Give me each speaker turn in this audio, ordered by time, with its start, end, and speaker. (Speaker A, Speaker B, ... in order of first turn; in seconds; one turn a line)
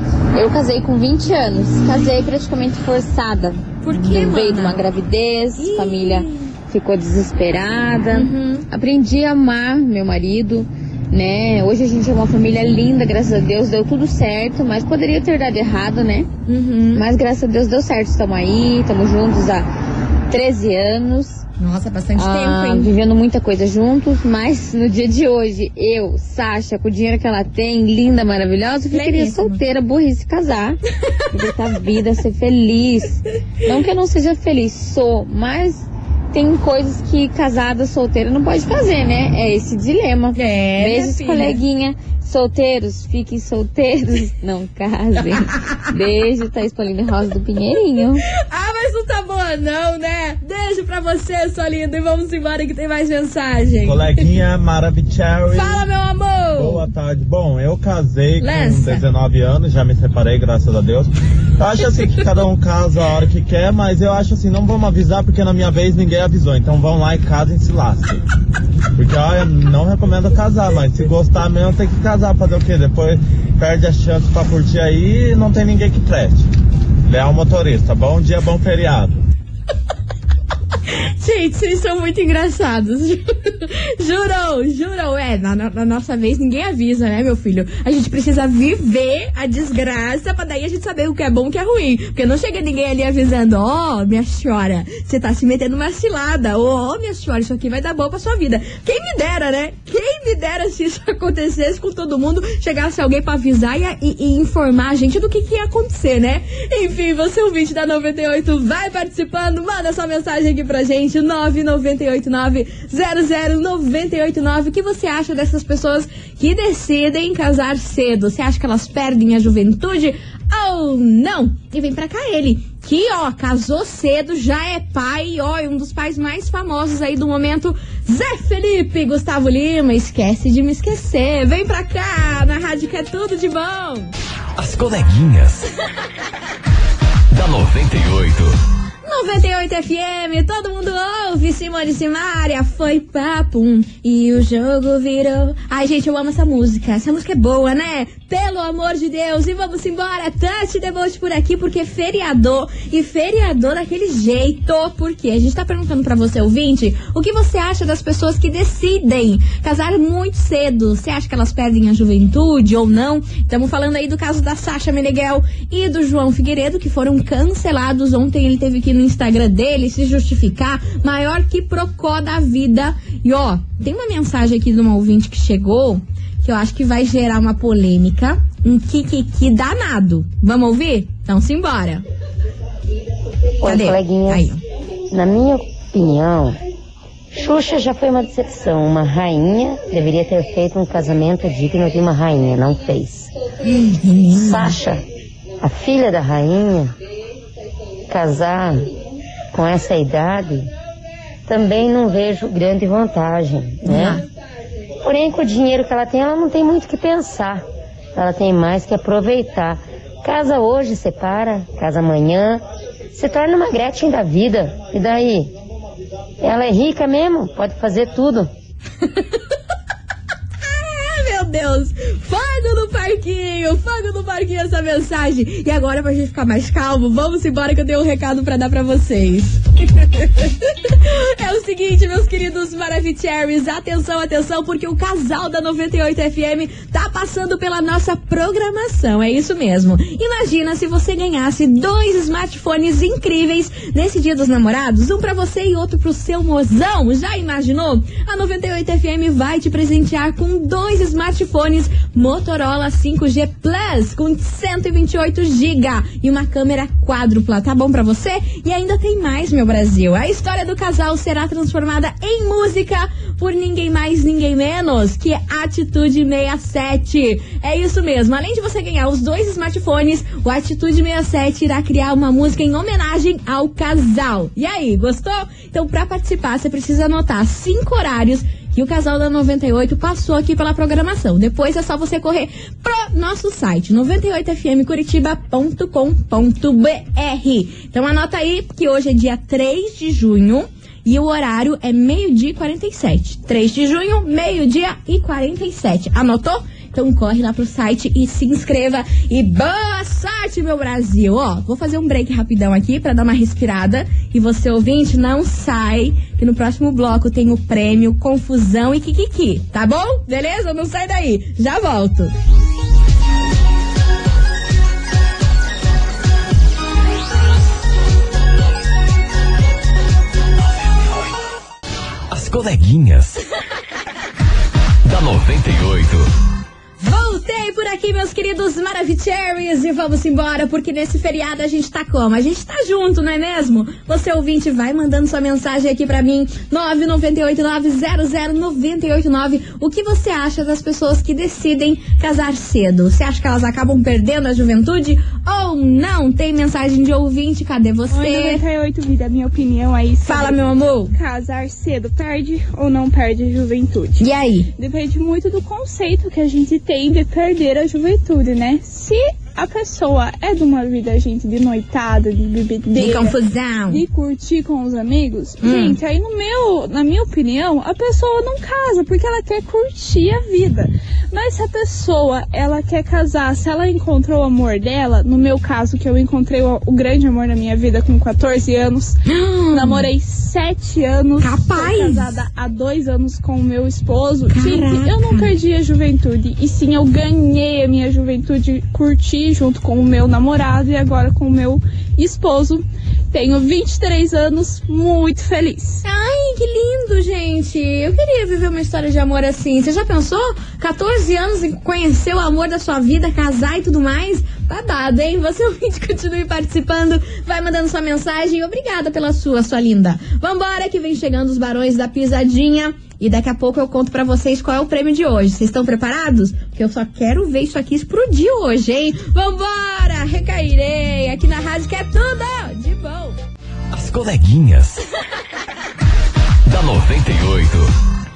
Speaker A: 0.3-16.3
Speaker B: 3.8-4.8
Speaker B: 5.6-6.4
Speaker B: 8.1-8.6
Speaker B: 16.5-17.0
Speaker A: 16.9-19.7
Speaker A: 20.3-21.4
Speaker B: 21.6-22.9
Speaker A: 22.1-30.8
Speaker B: 28.9-29.6
Speaker A: 31.3-48.2
Speaker B: 40.3-41.6
Speaker B: 48.4-54.1
Speaker C: 53.8-55.9
Speaker B: 55.5-56.8
Speaker C: 56.5-68.2
Speaker B: 58.4-59.0
Speaker C: 69.0-76.5
Speaker C: 77.1-79.2
Speaker B: 80.9-134.1
Speaker D: 134.6-135.7
Speaker D: 137.3-138.6
Speaker B: 139.0-182.0
Speaker E: 183.6-184.5
Speaker B: 183.6-184.6
Speaker E: 185.1-186.6
Speaker E: 187.3-193.3
Speaker B: 193.6-194.7
Speaker E: 194.3-195.0
Speaker E: 195.6-196.9
Speaker E: 198.1-198.9
Speaker E: 199.5-200.7
Speaker E: 201.5-204.2
Speaker B: 203.8-204.2
Speaker E: 205.0-215.5
Speaker E: 216.4-218.5
Speaker B: 220.6-312.3
Speaker D: 322.3-323.4
Speaker D: 325.0-326.3
Speaker B: 327.0-348.6
Speaker F: 348.1-363.4
Speaker B: 350.2-351.1
Speaker B: 354.2-354.7
Speaker B: 362.9-364.0
Speaker F: 363.9-379.2
Speaker B: 365.6-366.0
Speaker B: 379.2-380.1
Speaker F: 379.7-396.0
Speaker B: 381.4-382.4
Speaker B: 384.5-385.5
Speaker B: 396.0-423.4
Speaker D: 423.9-425.0
Speaker D: 426.6-427.9